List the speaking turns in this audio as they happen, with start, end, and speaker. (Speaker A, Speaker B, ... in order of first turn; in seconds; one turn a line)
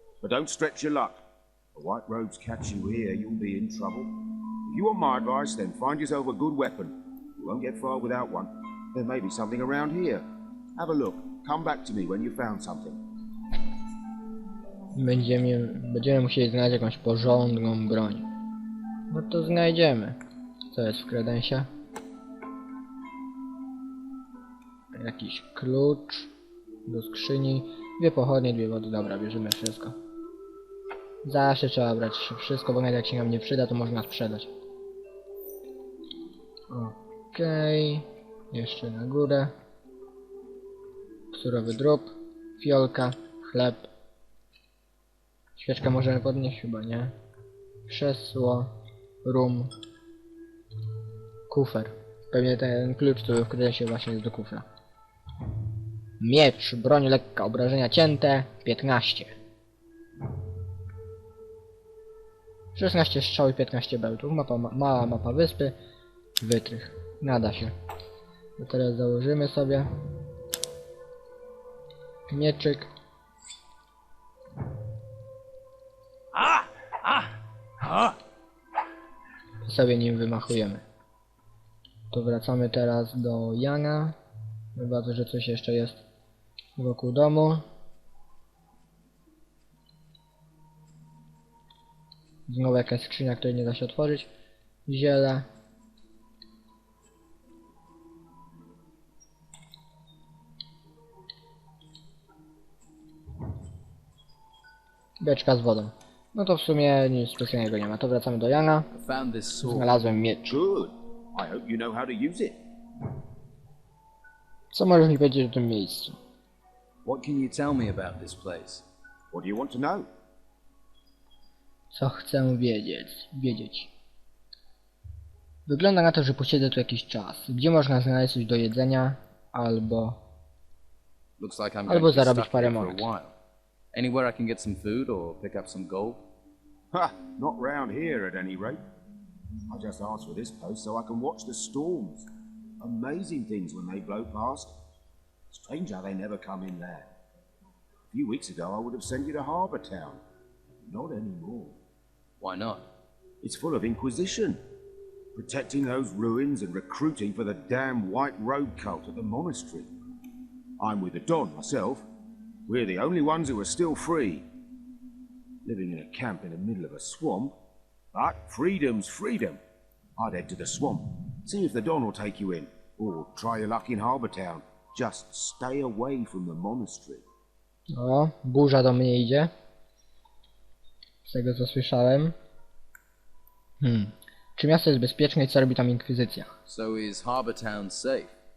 Speaker A: 0.2-1.2
Speaker A: 1.7-13.0
Speaker B: 14.9-18.2
Speaker B: 19.1-20.2
Speaker B: 20.7-21.7
Speaker B: 24.9-26.3
Speaker B: 26.9-29.9
Speaker B: 31.2-34.5
Speaker B: 36.7-39.5
Speaker B: 41.3-43.9
Speaker B: 45.6-47.1
Speaker B: 47.9-48.7
Speaker B: 49.2-49.7
Speaker B: 51.5-54.6
Speaker B: 56.2-59.3
Speaker B: 62.7-65.8
Speaker B: 66.4-67.7
Speaker B: 68.6-69.9
Speaker B: 72.3-72.9
Speaker B: 79.6-80.8
Speaker B: 82.1-84.2
Speaker B: 84.7-86.0
Speaker B: 86.8-87.6
Speaker B: 92.5-94.3
Speaker B: 94.9-95.5
Speaker B: 105.2-108.9
Speaker C: 108.9-109.9
Speaker B: 109.6-110.6
Speaker A: 110.5-112.6
Speaker B: 114.7-116.2
Speaker C: 117.0-118.8
Speaker A: 119.3-120.1
Speaker B: 121.9-123.9
Speaker B: 125.7-130.2
Speaker C: 131.4-133.3
Speaker B: 131.9-133.0
Speaker C: 133.9-136.2
Speaker A: 136.9-138.8
Speaker A: 139.7-142.3
Speaker A: 142.8-144.8
Speaker A: 145.5-147.1
Speaker A: 148.1-150.2
Speaker A: 150.8-151.8
Speaker C: 152.4-152.8
Speaker A: 153.4-154.6
Speaker A: 155.3-159.9
Speaker A: 160.8-162.1
Speaker A: 162.7-164.5
Speaker A: 165.6-167.5
Speaker A: 168.1-169.6
Speaker A: 170.2-177.2
Speaker B: 177.9-179.5
Speaker B: 181.2-182.3
Speaker B: 183.8-186.5
Speaker C: 186.7-188.3